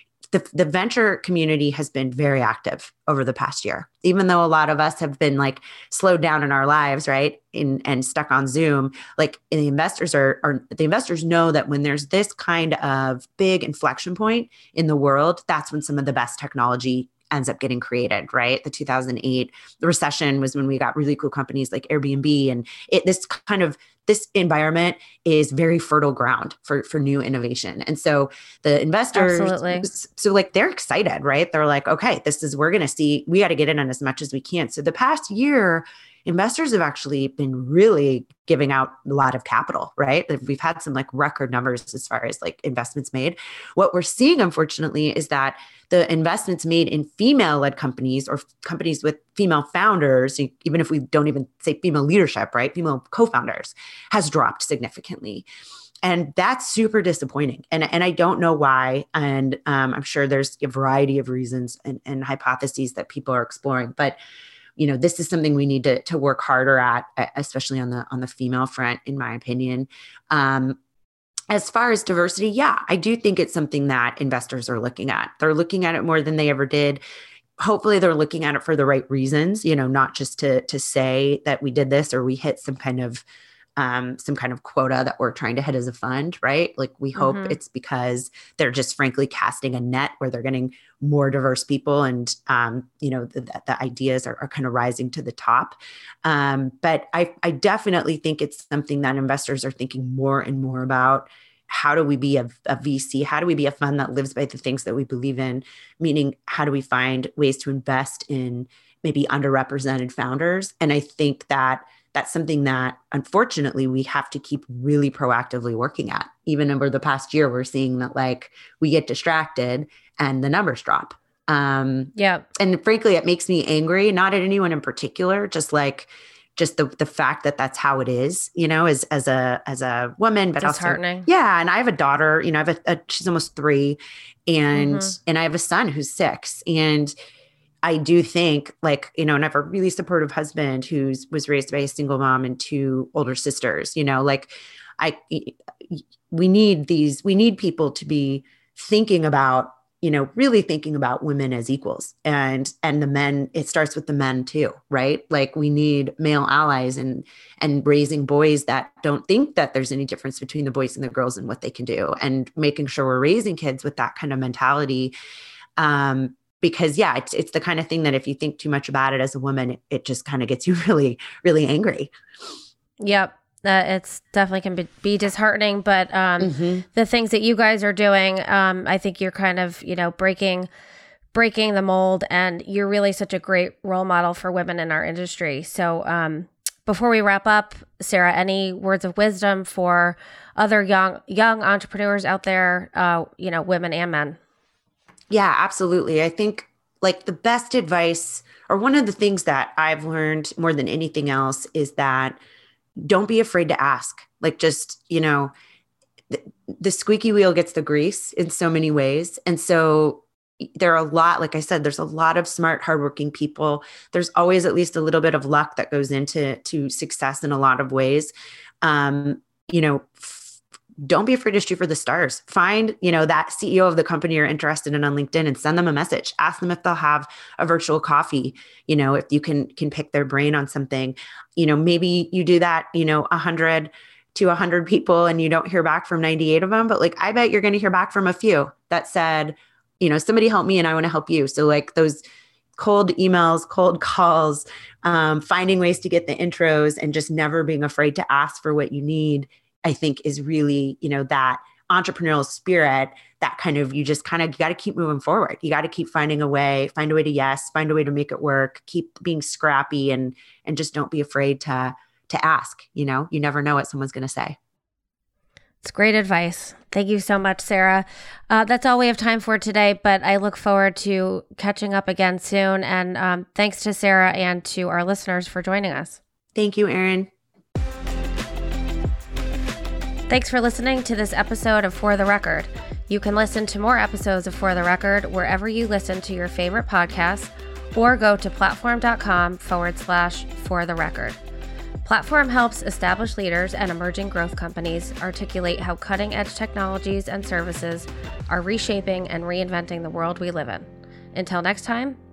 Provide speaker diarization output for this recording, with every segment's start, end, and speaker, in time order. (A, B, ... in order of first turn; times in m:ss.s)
0:00.3-0:55.4 A
0:29.1-0:29.9 B
0:56.0-1:04.2 A
1:04.8-1:10.8 A
1:11.5-1:17.0 A
1:17.6-1:23.2 A
1:23.8-2:17.1 A
1:27.2-1:27.6 B
2:02.1-2:02.5 B
2:10.6-2:11.3 B
2:14.7-2:15.1 B
2:17.8-2:45.1 A
2:45.8-2:52.1 A
2:53.0-3:00.7 B
2:56.4-2:56.8 A
3:01.3-3:14.4 B
3:15.3-3:22.4 A
3:23.0-3:25.5 A
3:26.3-4:02.2 A
4:02.8-4:24.6 A
4:25.8-4:36.2 B
4:36.6-4:37.3 A
4:40.3-4:51.4 B
4:52.0-5:02.2 B